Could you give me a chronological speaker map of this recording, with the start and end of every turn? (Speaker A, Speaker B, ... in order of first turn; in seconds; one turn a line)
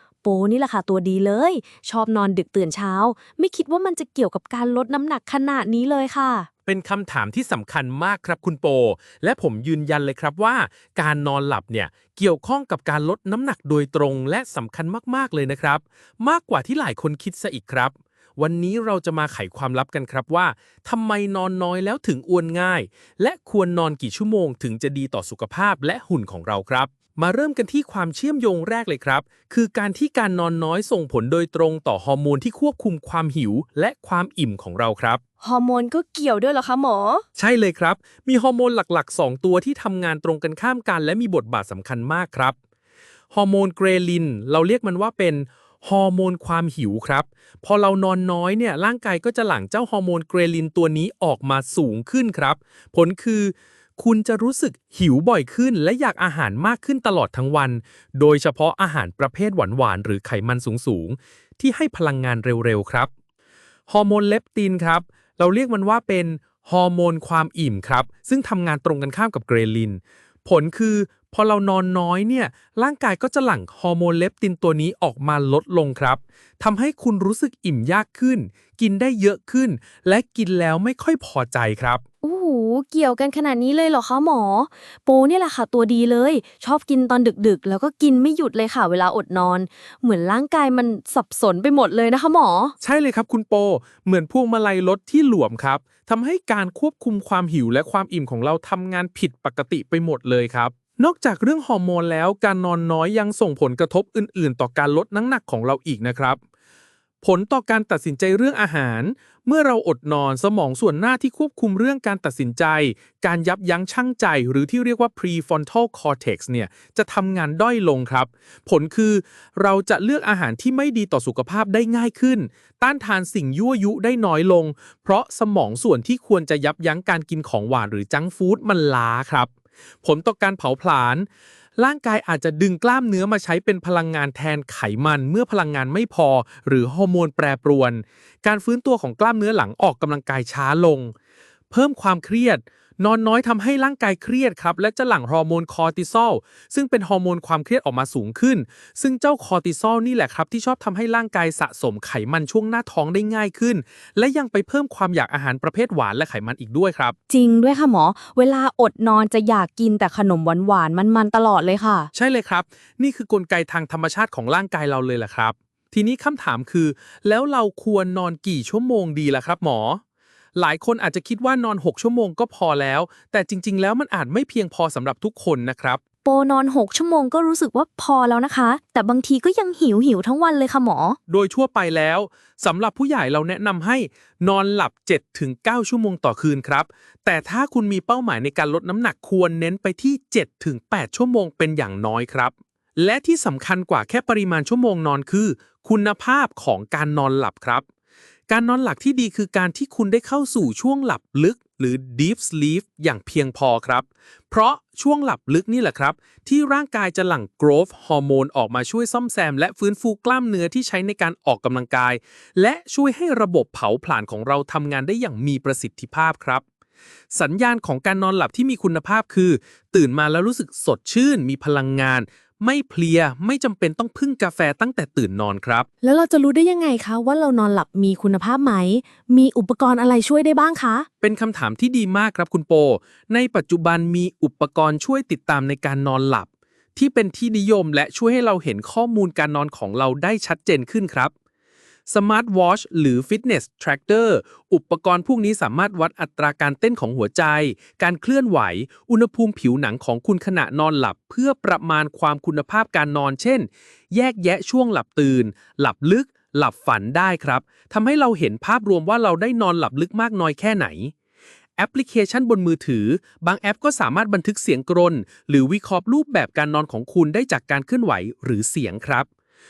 Speaker A: 0.2-6.5
Speaker B: 6.7-35.2
Speaker A: 35.4-37.2
Speaker B: 37.4-42.5
Speaker B: 43.3-63.1
Speaker B: 63.9-82.0
Speaker A: 82.2-92.7
Speaker B: 92.8-106.4
Speaker B: 107.2-129.5
Speaker B: 130.0-131.3
Speaker B: 131.8-141.1
Speaker B: 141.7-157.2
Speaker A: 157.3-162.1
Speaker B: 162.1-170.0
Speaker B: 170.5-176.0
Speaker A: 176.2-181.2
Speaker B: 181.3-197.8
Speaker B: 198.5-216.6
Speaker B: 217.3-225.9
Speaker A: 226.0-231.1
Speaker B: 231.2-241.3
Speaker B: 242.1-261.1
Speaker B: 261.8-269.3